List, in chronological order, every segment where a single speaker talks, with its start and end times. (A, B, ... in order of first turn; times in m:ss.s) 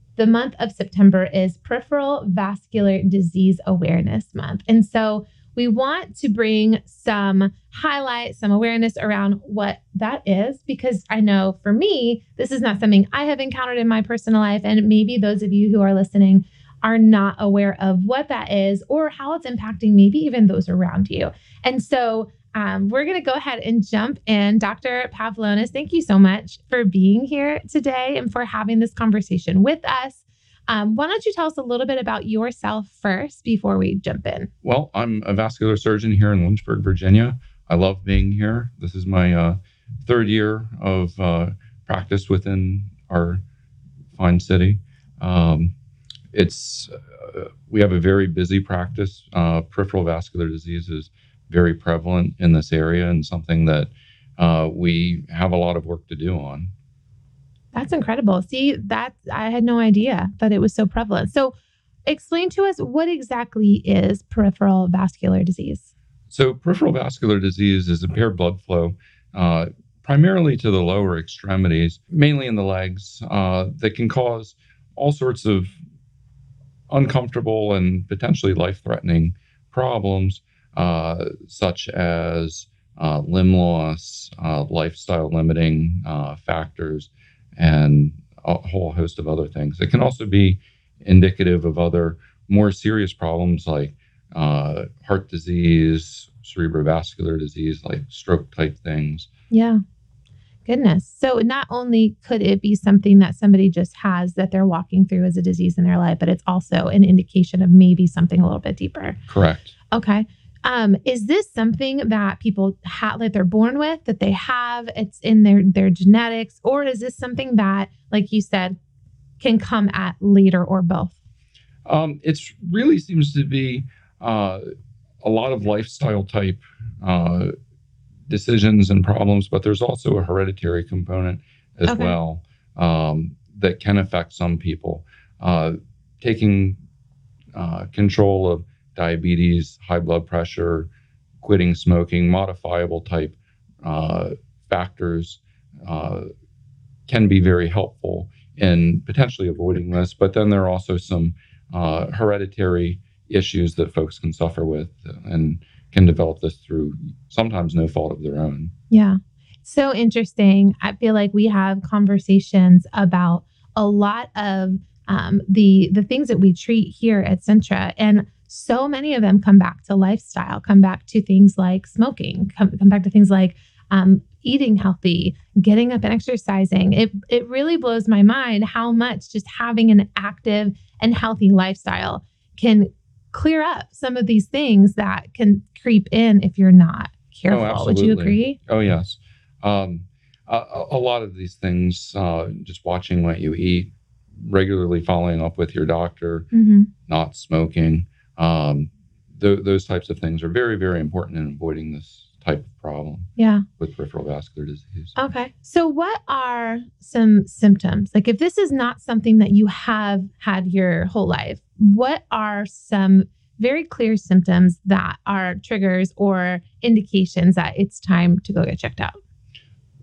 0:00.2-0:34.5 A
0:34.6-0:43.4 B
0:44.1-0:45.7 B
0:46.3-0:56.7 B
0:57.7-1:05.9 A
1:06.3-1:15.7 B
1:16.9-1:39.3 B
1:39.5-1:39.8 A
1:40.6-1:49.2 A
1:49.3-1:49.7 B
1:49.9-1:58.8 A
1:59.4-2:01.2 A
2:01.8-2:04.6 B
2:05.2-2:07.5 B
2:08.3-2:16.8 B
2:11.8-2:12.2 A
2:17.5-2:20.9 B
2:21.4-2:26.3 B
2:27.1-2:38.7 B
2:38.9-3:08.6 A
3:07.5-3:16.5 B
3:16.5-3:16.9 A
3:17.1-3:25.1 B
3:23.4-3:23.6 A
3:25.1-3:39.2 A